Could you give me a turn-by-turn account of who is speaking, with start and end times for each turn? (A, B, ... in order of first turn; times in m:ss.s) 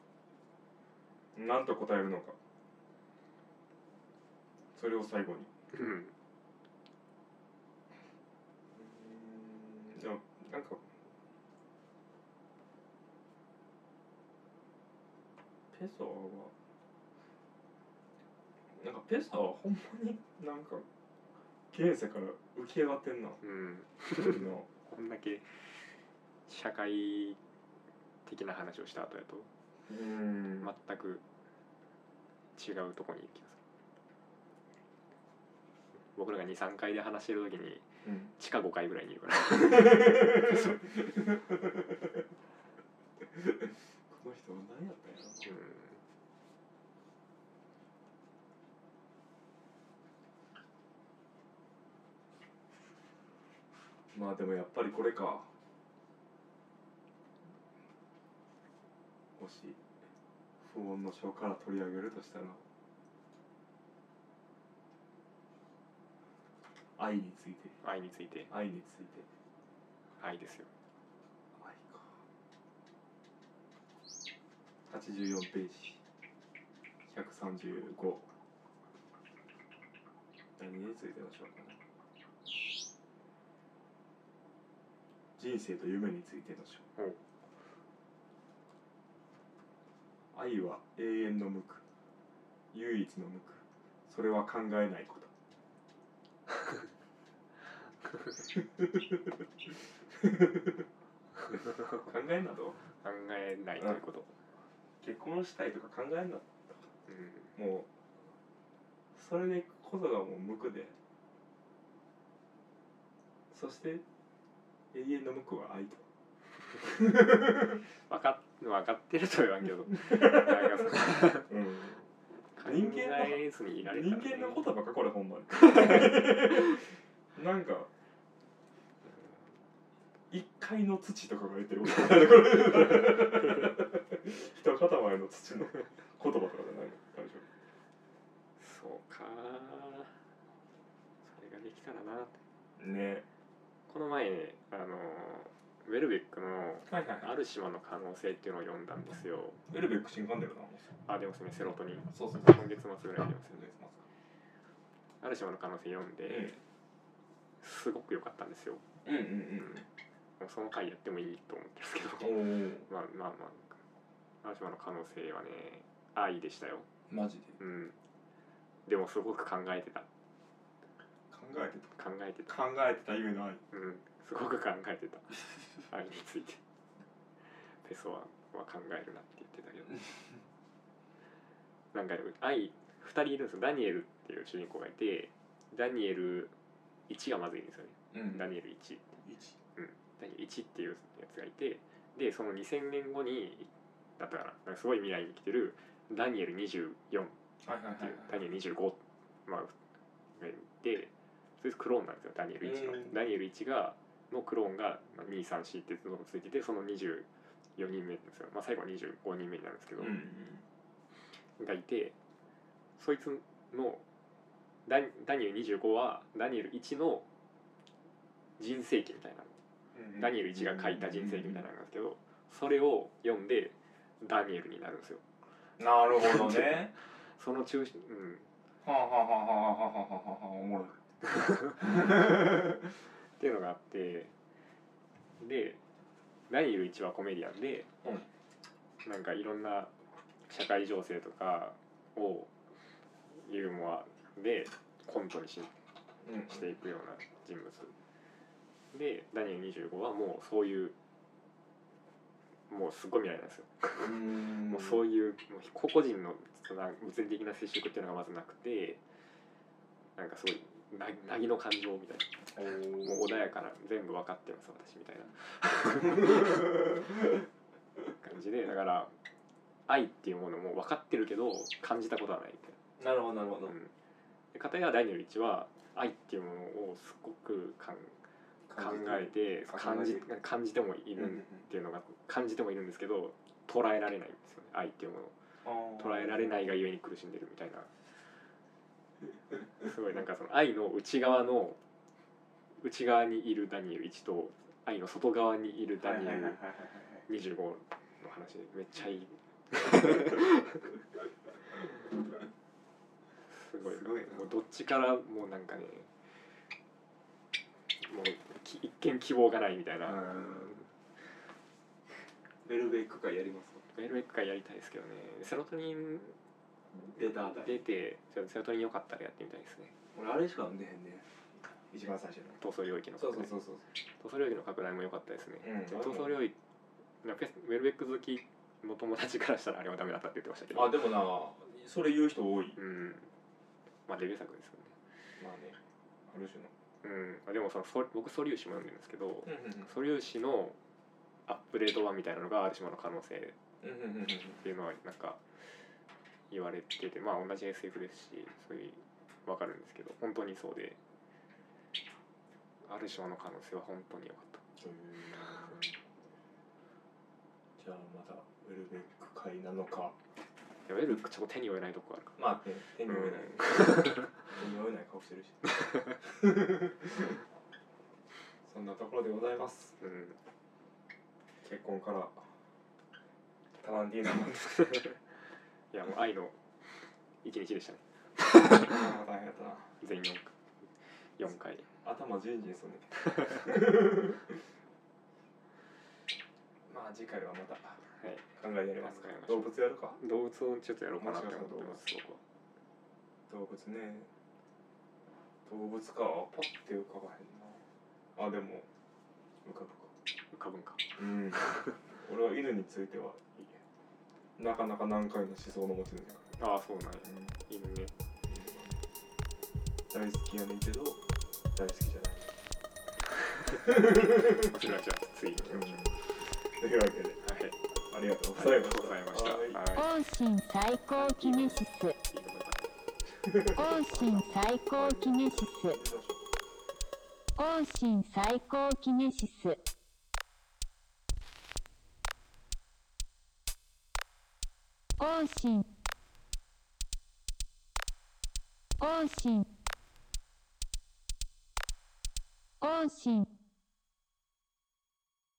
0:01.4-0:02.4 A
0:04.7-0:05.5 A
0:05.7-0:06.1 B
0:08.7-0:10.9 A
0:15.7-0:16.5 A
0:18.7-0:20.8 A
0:21.7-0:23.4 A
0:23.4-0:25.9 B
0:24.1-0:24.7 A
0:26.5-0:27.4 B
0:28.3-0:29.5 B
0:29.9-0:30.7 A
0:30.6-0:31.2 B
0:32.6-0:33.6 B
0:36.1-0:41.0 B
0:38.0-0:38.3 A
0:39.9-0:41.9 A
0:43.3-0:45.6 A
0:45.4-0:46.0 B
0:54.1-0:55.5 A
0:59.4-0:59.8 A
1:00.6-1:02.6 A
1:07.0-1:07.8 A
1:07.8-1:08.5 B
1:08.5-1:09.3 A
1:10.2-1:10.7 B
1:11.5-1:12.2 A
1:14.9-1:16.0 A
1:17.1-1:18.3 A
1:20.6-1:21.8 A
1:25.4-1:26.9 A
1:30.3-1:31.8 A
1:32.7-1:35.3 A
1:40.2-1:40.8 A
1:41.9-1:42.8 A
1:43.0-1:44.4 B
1:45.0-1:46.9 A
1:47.1-1:47.5 B
1:47.6-1:47.9 A
1:49.2-1:50.9 A
1:53.5-1:54.0 A
1:54.9-1:56.1 A
1:56.8-1:57.8 A
1:58.1-2:01.5 B
2:00.1-2:00.8 A
2:01.4-2:02.1 A
2:02.6-2:04.7 B
2:02.6-2:07.9 A
2:10.3-2:17.4 A
2:18.6-2:20.2 B
2:21.2-2:22.4 B
2:22.8-2:23.2 A
2:23.9-2:29.6 B
2:26.9-2:27.3 A
2:29.7-2:30.9 A
2:31.0-2:33.7 B
2:32.1-2:32.6 A
2:33.5-2:34.0 A
2:35.2-2:36.6 B
2:37.6-2:38.8 B
2:39.0-2:39.9 A
2:40.4-2:43.8 B
2:42.2-2:42.9 A
2:44.4-2:46.9 B
2:47.1-2:47.6 A
2:47.6-2:48.0 B
2:48.9-2:50.1 B
2:51.3-2:53.6 A
2:52.0-2:52.5 B
2:53.7-2:56.6 B
2:57.6-3:00.0 B
3:01.9-3:06.5 B
3:07.1-3:09.2 B
3:08.1-3:08.4 A
3:09.2-3:09.6 A
3:09.8-3:17.4 B
3:17.6-3:18.4 A
3:18.0-3:19.8 B
3:20.4-3:30.2 B
3:22.6-3:23.2 A
3:30.0-3:30.6 A
3:31.6-3:32.2 B
3:33.0-3:34.0 B
3:34.9-3:37.3 B
3:38.6-3:39.6 B
3:40.0-3:41.6 A
3:40.2-3:45.2 B
3:45.8-3:46.9 A
3:46.2-3:48.5 B
3:48.8-3:51.0 A
3:51.3-3:54.3 B
3:51.8-3:52.5 A
3:55.4-3:55.8 B
3:56.5-3:57.9 B
3:59.0-3:59.9 B
4:00.5-4:02.5 B
4:03.3-4:05.7 B
4:06.2-4:06.6 A
4:06.3-4:08.0 B
4:08.9-4:11.0 B
4:12.7-4:19.0 B
4:14.0-4:15.0 A
4:20.2-4:27.0 B
4:22.6-4:23.4 A
4:28.2-4:29.1 B
4:29.9-4:32.8 B
4:33.0-4:33.8 A
4:34.5-4:38.2 B
4:38.7-4:40.3 A
4:38.8-4:45.4 B
4:41.2-4:41.5 A
4:45.6-4:46.5 A
4:46.0-4:47.9 B
4:49.8-4:51.8 B
4:52.8-4:56.6 B
4:56.0-4:57.2 A
4:57.3-5:01.0 B
5:03.5-5:06.1 B
5:03.8-5:04.5 A
5:08.0-5:10.9 B
5:10.1-5:10.8 A
5:12.6-5:13.9 A
5:13.9-5:16.4 B
5:17.1-5:17.8 A
5:17.2-5:20.0 B
5:20.1-5:22.6 A
5:22.6-5:26.6 B
5:23.2-5:23.9 A
5:25.6-5:26.4 A
5:27.2-5:31.0 B
5:30.7-5:32.8 A
5:32.8-5:33.3 B
5:34.1-5:35.0 B
5:35.4-5:36.7 A
5:37.0-5:40.8 B
5:39.5-5:39.9 A
5:41.5-5:43.6 B
5:43.8-5:44.6 A
5:44.6-5:45.4 B
5:46.5-5:51.0 B
5:52.8-5:54.6 B
5:54.8-5:55.9 A
5:57.8-6:00.2 A
6:00.8-6:02.4 B
6:02.4-6:07.4 A
6:03.1-6:04.3 B
6:08.6-6:10.0 A
6:10.0-6:10.4 B
6:11.6-6:12.5 A
6:13.8-6:15.0 A
6:14.9-6:15.2 B
6:15.9-6:16.6 B
6:17.4-6:19.1 B
6:18.8-6:19.9 A
6:20.0-6:20.5 B
6:21.1-6:21.9 B
6:22.0-6:24.6 A
6:26.9-6:28.0 A
6:28.2-6:28.5 B
6:28.6-6:30.2 A
6:29.0-6:32.4 B
6:31.2-6:32.0 A
6:33.5-6:34.3 A
6:35.7-6:38.9 A
6:39.6-6:40.1 A
6:40.5-6:42.0 B
6:41.2-6:43.8 A
6:44.6-6:46.6 A
6:46.6-6:48.1 B
6:47.2-6:47.6 A
6:48.5-6:49.0 A
6:50.1-6:51.2 A
6:51.7-6:52.6 A
6:53.6-6:56.2 B
6:53.8-6:54.7 A
6:55.6-6:57.5 A
6:57.4-6:57.8 B
6:58.1-6:59.9 A
6:58.5-7:00.1 B
7:00.0-7:02.2 C
7:01.2-7:02.9 B
7:03.4-7:04.1 A
7:03.6-7:06.0 C
7:04.1-7:05.5 B
7:05.0-7:06.4 A
7:07.6-7:09.8 C
7:15.2-7:15.9 C
7:19.0-7:19.7 C
7:22.8-7:23.5 C